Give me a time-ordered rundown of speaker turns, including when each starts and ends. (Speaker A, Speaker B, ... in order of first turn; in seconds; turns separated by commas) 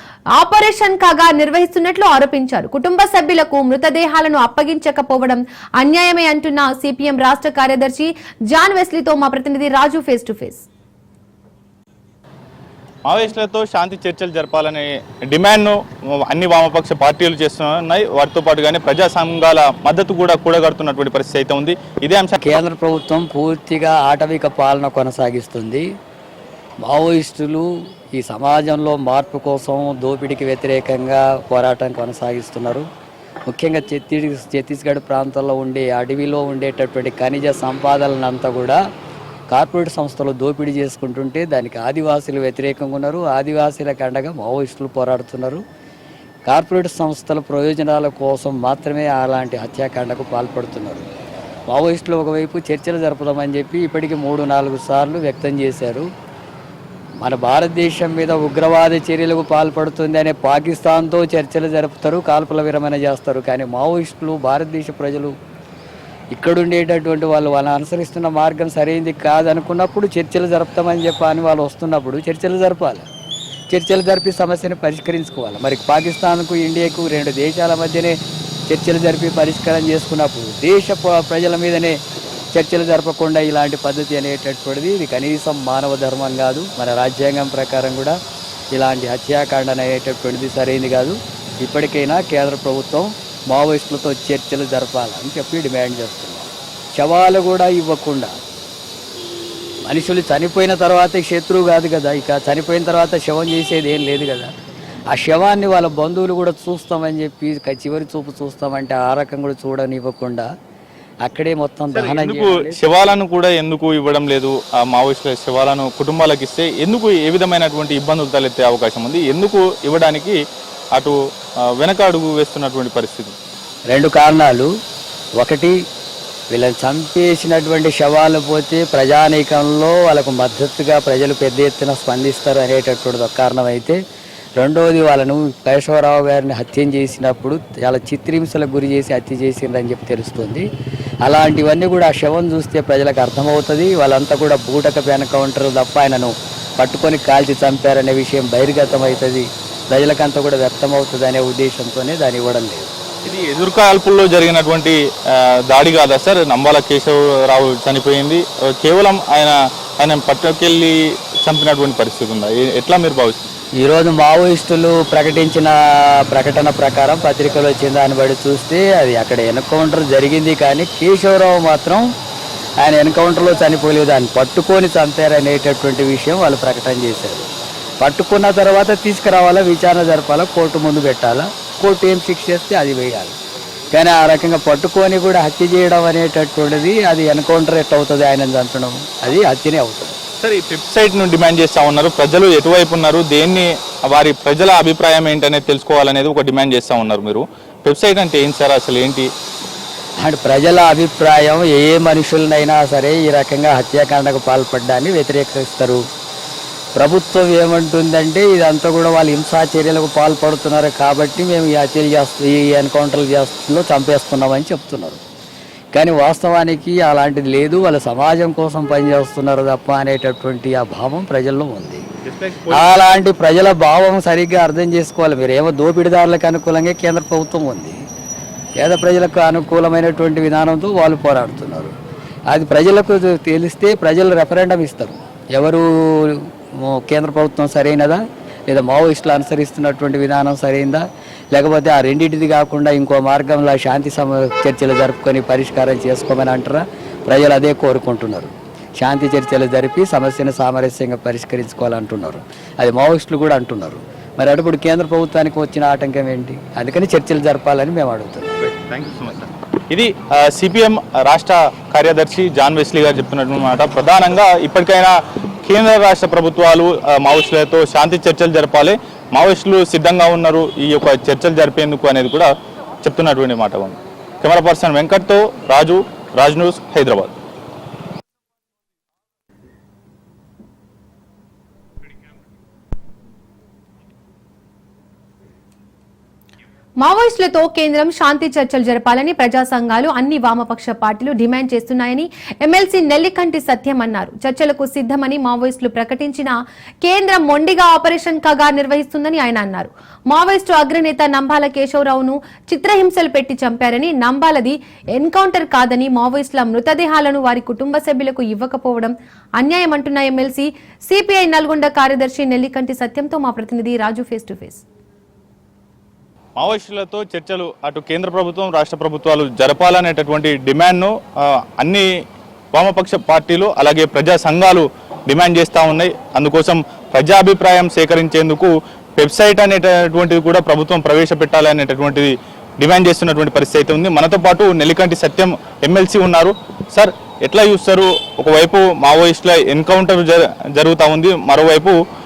Speaker A: 0.3-10.7, Speaker B: 13.0-15.8, Speaker B: 16.3-22.5, Speaker C: 22.4-25.8, Speaker C: 26.8-32.9, Speaker C: 33.5-38.8, Speaker C: 39.5-45.6, Speaker C: 46.5-51.0, Speaker C: 51.7-56.0, Speaker C: 57.2-65.3, Speaker C: 66.3-73.0, Speaker C: 73.7-78.2, Speaker C: 78.7-82.0, Speaker C: 82.5-88.2, Speaker C: 88.7-98.3, Speaker C: 99.9-104.5, Speaker C: 105.1-110.5, Speaker C: 111.2-112.9, Speaker B: 111.9-120.3, Speaker B: 121.8-123.3, Speaker C: 123.9-124.7, Speaker C: 125.4-125.8, Speaker C: 126.5-134.0, Speaker C: 134.6-140.7, Speaker C: 141.2-152.9, Speaker B: 153.2-155.0, Speaker B: 155.7-163.4, Speaker C: 163.8-172.0, Speaker C: 172.8-177.5, Speaker C: 178.0-183.3, Speaker C: 183.9-190.2, Speaker B: 190.4-199.3, Speaker C: 200.2-206.0, Speaker C: 207.0-215.2, Speaker C: 215.9-222.0, Speaker B: 222.2-223.0, Speaker C: 222.7-228.0, Speaker C: 228.8-231.9, Speaker C: 232.5-241.0, Speaker C: 241.5-258.6, Speaker B: 258.6-265.1, Speaker B: 265.6-272.5, Speaker B: 273.0-277.3, Speaker A: 287.0-314.8, Speaker B: 316.6-321.1, Speaker B: 321.8-322.0, Speaker B: 322.7-341.9